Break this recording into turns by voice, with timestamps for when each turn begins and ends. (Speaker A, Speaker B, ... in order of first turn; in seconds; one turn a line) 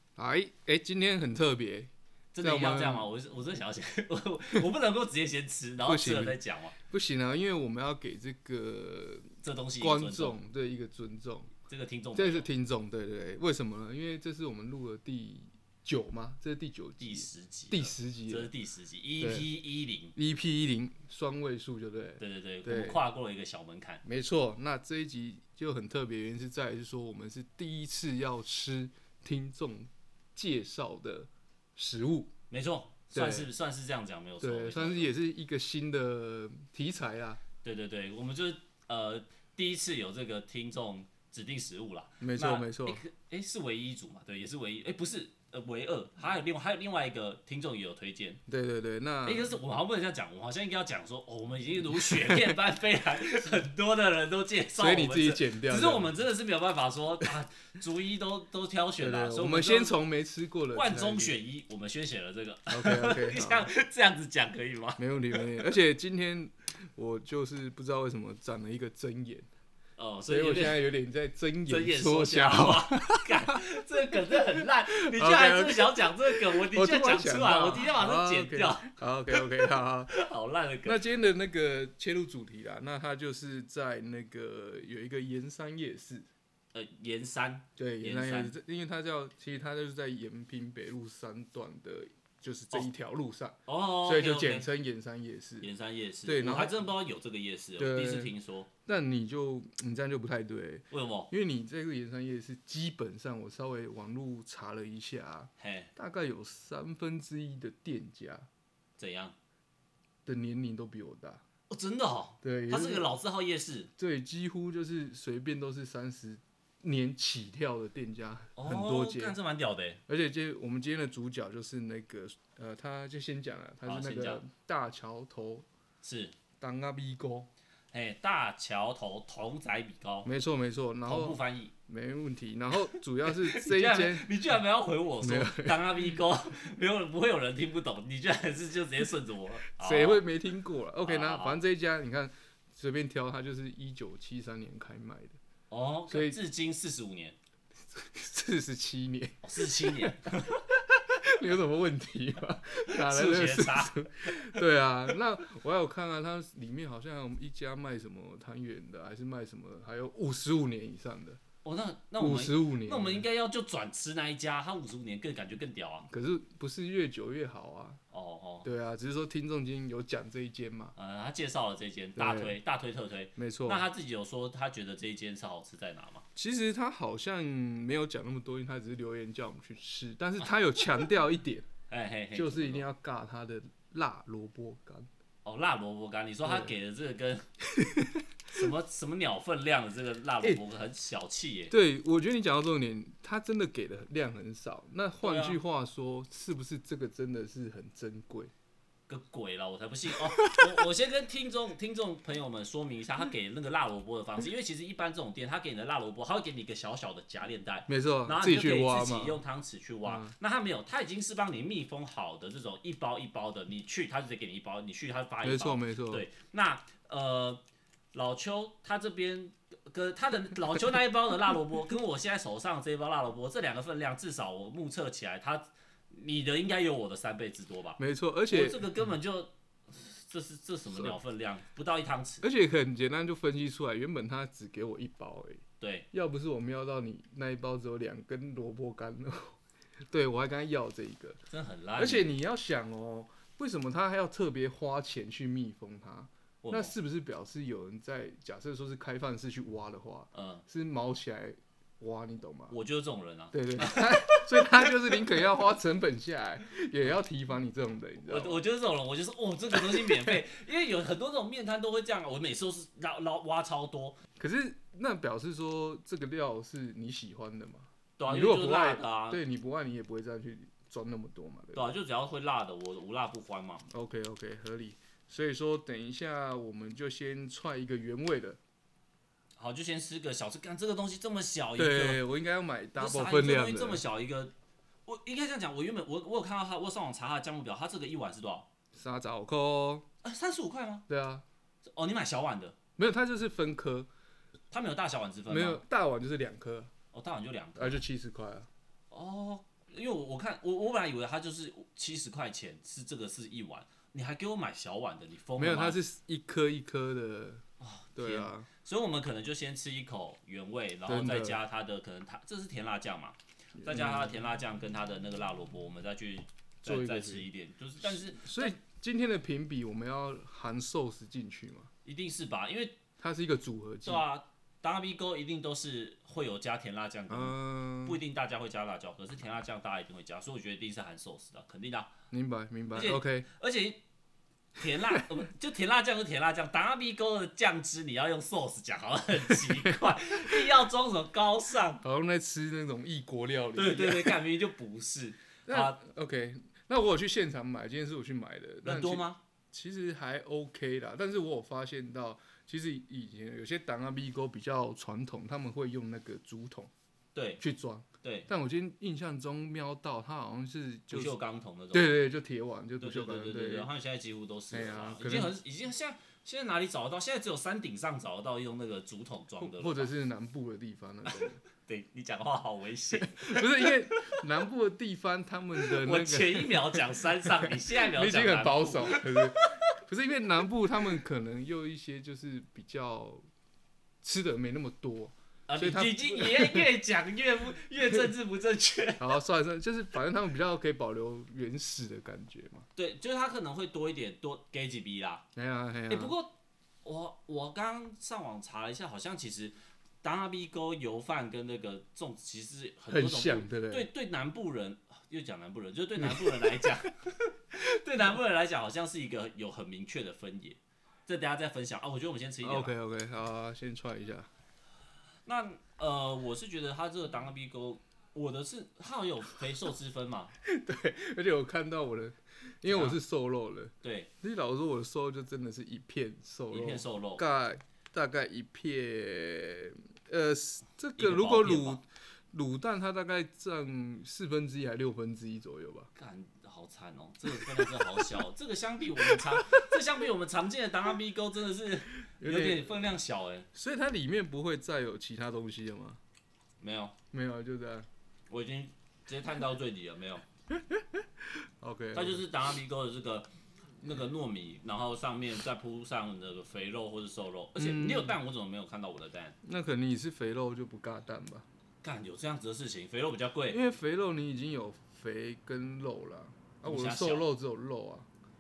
Speaker A: 0.2-3.1
Speaker B: 2.3-6.8
Speaker A: 5.8-11.5
Speaker B: 9.4-10.4
Speaker B: 11.7-12.5
Speaker A: 12.1-18.5
Speaker B: 17.0-20.1
Speaker A: 19.2-19.5
Speaker A: 20.2-23.0
Speaker B: 22.2-24.0
Speaker A: 24.1-32.3
Speaker B: 32.5-35.1
Speaker A: 33.1-33.5
Speaker A: 34.4-37.4
Speaker B: 37.6-48.4
Speaker A: 42.2-43.0
Speaker A: 48.5-49.5
Speaker B: 49.2-60.0
Speaker A: 51.9-52.6
Speaker A: 54.8-56.1
Speaker A: 59.0-61.4
Speaker B: 60.7-65.6
Speaker A: 62.7-63.7
Speaker A: 65.0-69.5
Speaker B: 70.0-70.9
Speaker A: 70.3-73.6
Speaker B: 71.7-81.1
Speaker A: 74.3-80.1
Speaker A: 80.8-86.3
Speaker B: 86.7-88.5
Speaker A: 87.8-95.7
Speaker B: 93.7-94.7
Speaker B: 95.6-98.7
Speaker A: 96.2-96.9
Speaker A: 97.8-98.3
Speaker A: 98.9-108.5
Speaker B: 100.9-101.3
Speaker B: 105.6-105.9
Speaker B: 109.0-109.3
Speaker A: 110.3-111.4
Speaker B: 111.7-113.9
Speaker A: 112.4-113.1
Speaker A: 114.0-119.4
Speaker B: 118.6-120.0
Speaker A: 120.1-125.7
Speaker B: 123.8-124.4
Speaker B: 126.0-126.3
Speaker A: 126.6-127.5
Speaker B: 127.9-130.3
Speaker A: 130.2-134.3
Speaker B: 131.1-131.7
Speaker B: 132.9-140.2
Speaker A: 135.2-136.2
Speaker A: 139.8-145.4
Speaker B: 141.0-141.6
Speaker B: 145.7-147.4
Speaker A: 146.1-146.4
Speaker A: 147.9-161.4
Speaker B: 149.4-150.6
Speaker B: 152.9-154.6
Speaker B: 161.6-166.1
Speaker A: 162.2-163.2
Speaker A: 166.1-168.0
Speaker B: 168.1-168.7
Speaker A: 168.6-170.9
Speaker B: 171.0-176.3
Speaker A: 172.2-172.6
Speaker A: 173.4-173.8
Speaker A: 176.4-181.7
Speaker B: 181.9-182.9
Speaker A: 182.3-185.1
Speaker B: 185.4-187.4
Speaker A: 186.4-186.7
Speaker A: 187.7-188.2
Speaker B: 188.5-191.8
Speaker A: 191.7-198.5
Speaker B: 195.2-195.6
Speaker B: 199.1-217.6
Speaker A: 200.1-200.9
Speaker A: 207.9-209.4
Speaker A: 210.1-210.3
Speaker A: 215.4-216.3
Speaker B: 218.1-232.5
Speaker A: 228.0-228.9
Speaker A: 230.9-231.2
Speaker A: 232.4-239.6
Speaker B: 235.8-236.1
Speaker A: 240.1-241.4
Speaker B: 241.5-242.3
Speaker A: 242.0-252.8
Speaker B: 246.6-246.9
Speaker B: 250.3-250.6
Speaker B: 252.7-255.5
Speaker A: 253.5-258.6
Speaker B: 258.2-264.2
Speaker A: 259.7-260.4
Speaker A: 264.4-271.9
Speaker B: 268.2-269.4
Speaker B: 271.8-273.8
Speaker A: 273.9-278.6
Speaker B: 279.6-282.2
Speaker A: 281.8-284.0
Speaker B: 283.0-284.5
Speaker B: 285.1-288.7
Speaker A: 288.9-290.1
Speaker B: 290.2-291.1
Speaker A: 291.1-291.4
Speaker B: 291.8-292.8
Speaker A: 293.0-294.1
Speaker B: 294.7-295.8
Speaker A: 295.5-296.9
Speaker B: 297.1-298.0
Speaker A: 297.8-298.7
Speaker B: 299.1-306.0
Speaker A: 305.6-307.6
Speaker B: 307.8-318.8
Speaker A: 308.2-308.7
Speaker A: 311.1-311.6
Speaker A: 313.8-314.3
Speaker A: 316.8-317.5
Speaker A: 318.0-321.9
Speaker B: 322.1-323.0
Speaker A: 323.2-324.2
Speaker B: 324.0-332.1
Speaker A: 327.3-328.2
Speaker A: 332.3-333.5
Speaker B: 332.9-334.0
Speaker B: 334.8-342.0
Speaker A: 339.7-340.7
Speaker A: 342.0-344.4
Speaker B: 343.8-346.0
Speaker A: 345.7-356.9
Speaker B: 348.8-349.4
Speaker B: 357.4-357.6
Speaker A: 357.6-361.4
Speaker B: 358.2-358.5
Speaker B: 361.1-362.3
Speaker A: 361.9-363.9
Speaker B: 363.0-370.1
Speaker A: 364.7-365.5
Speaker A: 369.6-371.6
Speaker B: 371.3-374.4
Speaker A: 373.1-383.4
Speaker B: 375.8-379.8
Speaker A: 384.2-386.9
Speaker B: 385.7-389.3
Speaker A: 389.2-392.9
Speaker B: 393.0-395.5
Speaker A: 395.6-396.3
Speaker B: 396.1-412.9
Speaker A: 403.1-404.1
Speaker A: 406.2-407.1
Speaker A: 412.6-414.5
Speaker B: 415.5-420.5
Speaker A: 420.6-436.1
Speaker B: 422.9-423.2
Speaker B: 424.0-424.3
Speaker B: 426.7-427.4
Speaker B: 431.2-432.0
Speaker B: 436.1-443.7
Speaker A: 437.5-438.3
Speaker A: 439.2-440.0
Speaker A: 442.4-443.1
Speaker A: 443.7-446.2
Speaker B: 446.8-447.1
Speaker A: 447.3-448.1
Speaker B: 448.5-450.5
Speaker A: 450.8-452.5
Speaker B: 452.1-453.5
Speaker B: 454.0-459.6
Speaker A: 457.8-458.4
Speaker A: 459.6-461.7
Speaker B: 462.0-463.8
Speaker A: 463.7-468.3
Speaker B: 466.9-467.5